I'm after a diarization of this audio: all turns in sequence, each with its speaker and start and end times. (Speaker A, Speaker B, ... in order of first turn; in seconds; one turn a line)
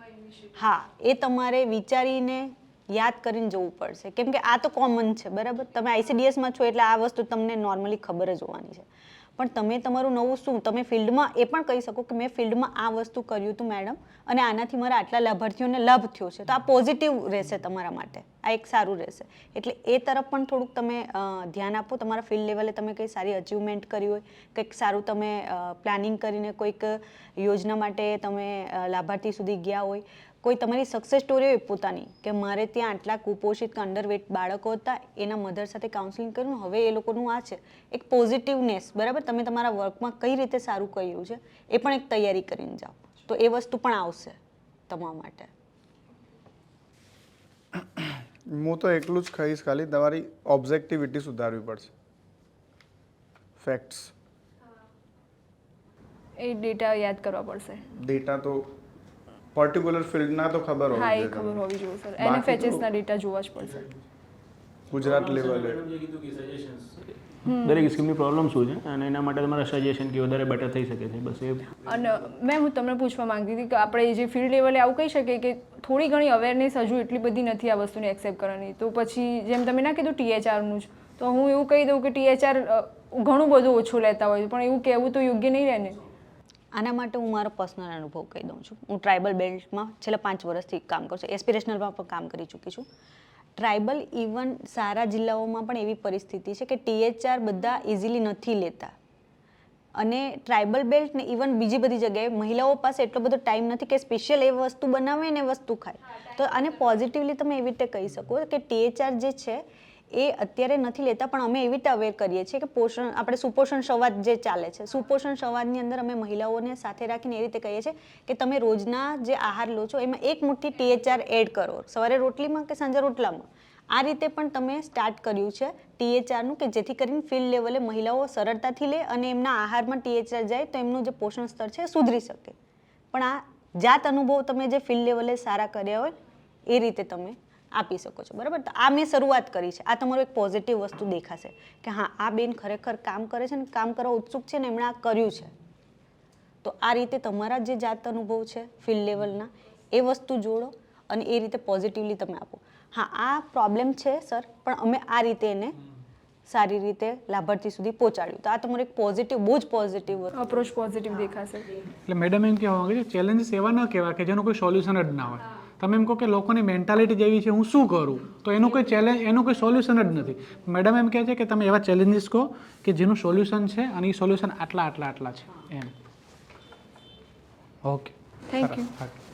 Speaker A: 0.5-45.5
Speaker B: 47.8-51.9
Speaker B: 53.6-54.1
Speaker C: 56.4-57.8
Speaker B: 58.0-58.7
Speaker B: 59.5-61.6
Speaker C: 60.9-63.9
Speaker B: 62.2-62.8
Speaker B: 64.9-65.8
Speaker D: 65.0-71.8
Speaker C: 67.4-67.8
Speaker C: 71.8-86.0
Speaker A: 86.7-92.9
Speaker A: 93.5-98.9
Speaker A: 99.9-132.6
Speaker A: 133.1-136.2
Speaker A: 136.7-145.5
Speaker A: 146.6-155.8
Speaker A: 156.5-160.5
Speaker C: 160.3-161.7
Speaker E: 162.1-175.9
Speaker E: 177.8-179.1
Speaker C: 178.5-178.9